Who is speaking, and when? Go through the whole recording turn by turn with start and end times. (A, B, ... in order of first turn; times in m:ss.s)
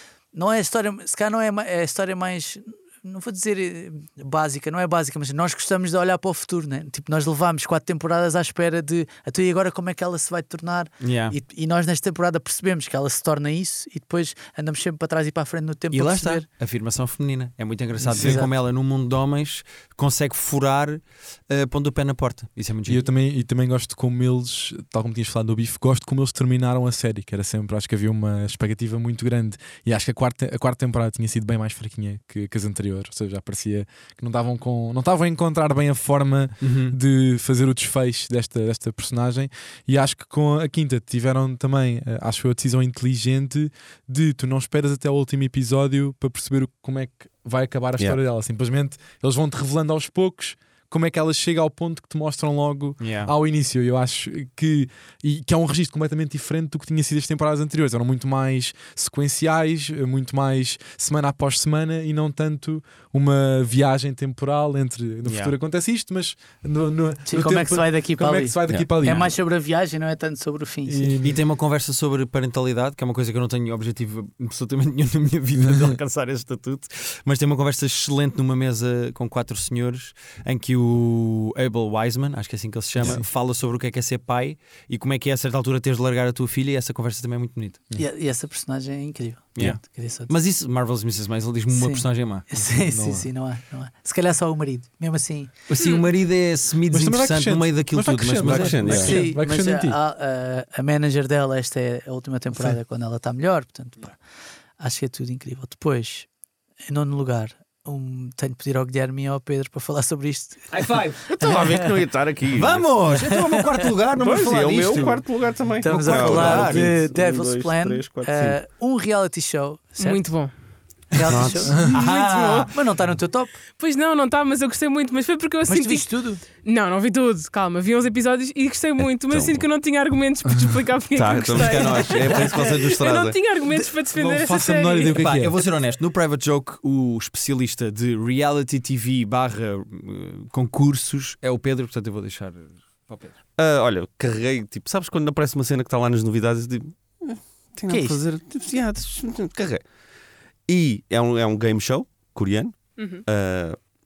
0:00.3-0:16.4 A
0:11.0-0:11.4 B
0:15.9-0:23.0 B
0:18.0-0:18.5 A
0:18.1-0:18.4 C
0:22.8-1:09.3 C
0:36.6-0:37.0 B
0:53.0-0:53.3 B
1:05.2-1:05.5 B
1:07.2-1:11.2 A
1:10.8-1:11.4 C
1:11.2-1:27.8 B
1:23.0-1:23.3 C
1:28.0-1:30.3 A
1:29.6-1:32.4 B
1:31.7-1:35.5 A
1:32.7-1:33.3 C
1:35.7-1:39.2 B
1:35.8-1:36.0 D
1:36.9-1:40.0 C
1:38.4-1:39.2 E
1:38.8-1:44.2 A
1:44.8-1:46.3 A
1:46.9-1:51.9 A
1:50.7-1:51.2 B
1:51.3-1:52.9 E
1:52.5-1:55.2 B
1:53.1-1:53.6 A
1:54.2-1:58.6 E
1:55.8-2:00.2 A
1:55.8-1:56.9 B
2:00.0-2:00.5 D
2:01.1-2:03.6 A
2:01.2-2:01.9 E
2:01.8-2:02.7 D
2:01.9-2:02.7 B
2:03.7-2:15.2 D
2:05.7-2:06.4 A
2:09.0-2:09.6 E
2:11.1-2:13.4 E
2:11.5-2:12.5 B
2:14.2-2:23.3 B
2:14.2-2:15.5 C
2:23.6-2:29.8 E
2:27.9-2:28.2 A
2:30.7-2:33.8 E
2:33.0-2:33.2 D